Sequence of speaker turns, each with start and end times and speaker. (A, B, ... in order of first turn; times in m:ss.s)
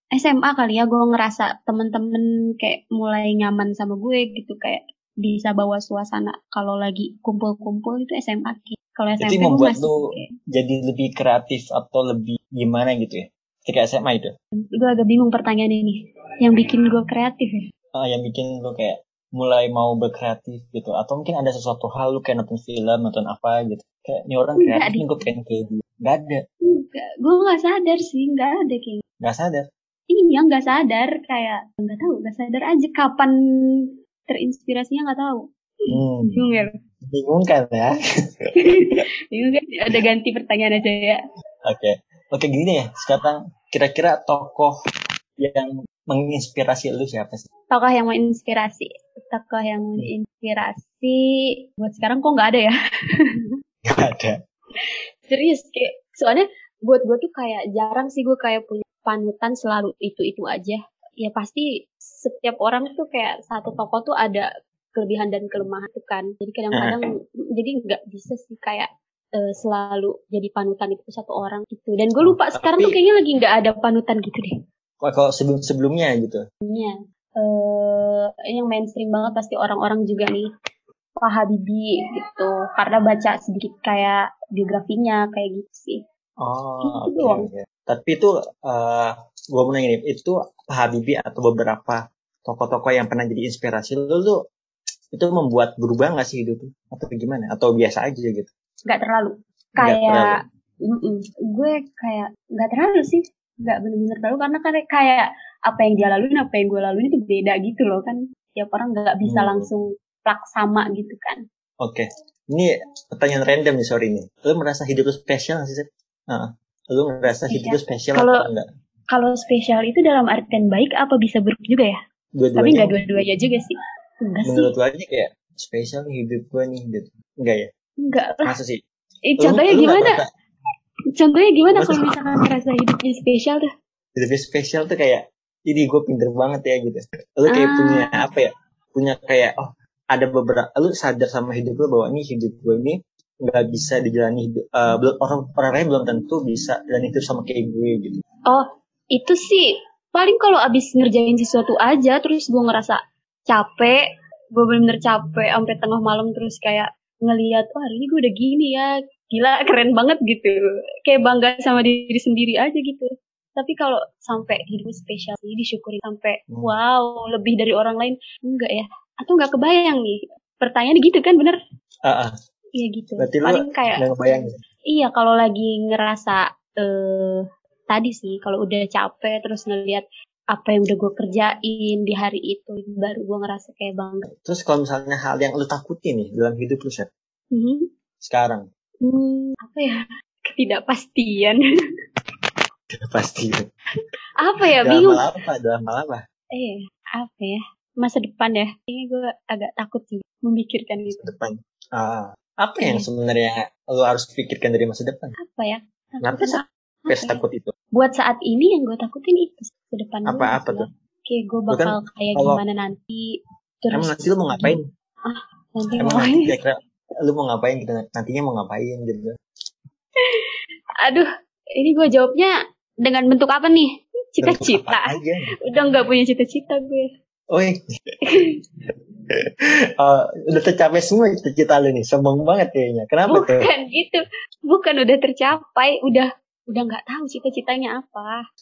0:00.1-0:10.3 A
0:09.2-0:14.3 B
0:14.7-0:17.6 A
0:17.9-0:26.4 B
0:24.6-0:25.1 A
0:26.7-0:29.0 A
0:29.2-0:29.6 B
0:30.1-0:33.3 A
0:34.3-0:36.7 A
0:35.9-0:36.4 B
0:37.1-0:37.9 B
0:38.4-0:39.0 B
0:38.6-0:41.2 A
0:41.6-0:44.7 B
0:45.4-0:47.4 B
0:47.7-0:53.5 A
0:53.8-0:54.4 B
0:55.3-1:07.0 A
1:07.6-1:14.5 A
1:12.2-1:13.0 B
1:15.0-1:16.4 B
1:16.6-1:20.4 A
1:21.2-1:26.0 A
1:26.4-1:34.4 B
1:26.8-1:27.4 A
1:35.1-1:38.5 B
1:38.9-1:40.4 A
1:39.8-1:40.4 B
1:40.9-1:51.4 A
1:49.2-1:49.7 B
1:51.8-1:58.6 B
1:57.5-1:58.4 A
1:59.1-2:02.0 A
2:02.4-2:02.9 B
2:02.6-2:04.7 A
2:04.4-2:07.7 B
2:08.0-2:08.5 A
2:08.4-2:08.8 B
2:09.3-2:10.2 A
2:09.4-2:10.3 B
2:11.2-2:13.7 A
2:11.7-2:12.1 B
2:14.2-2:28.2 B
2:17.5-2:18.1 A
2:28.5-2:34.0 A
2:34.5-2:40.5 A
2:41.1-2:51.6 A
2:52.0-2:52.3 B
2:52.8-3:04.2 A
2:53.2-2:54.5 B
3:04.4-3:07.1 B
3:07.5-3:07.9 A
3:08.2-3:08.6 B
3:09.0-3:11.6 A
3:13.1-3:13.6 B
3:14.4-3:15.2 A
3:14.8-3:16.2 B
3:16.5-3:21.3 A
3:21.1-3:25.3 B
3:22.8-3:23.1 A
3:25.4-3:27.4 A
3:26.2-3:27.7 B
3:27.9-3:36.5 A
3:30.2-3:30.9 B
3:31.7-3:32.6 B
3:33.9-3:34.8 B
3:36.0-3:39.3 B
3:40.2-3:40.5 A
3:41.0-3:45.1 A
3:44.4-3:45.5 B
3:45.6-3:47.1 A
3:47.5-3:47.8 B
3:50.0-3:53.7 B
3:53.3-3:58.4 A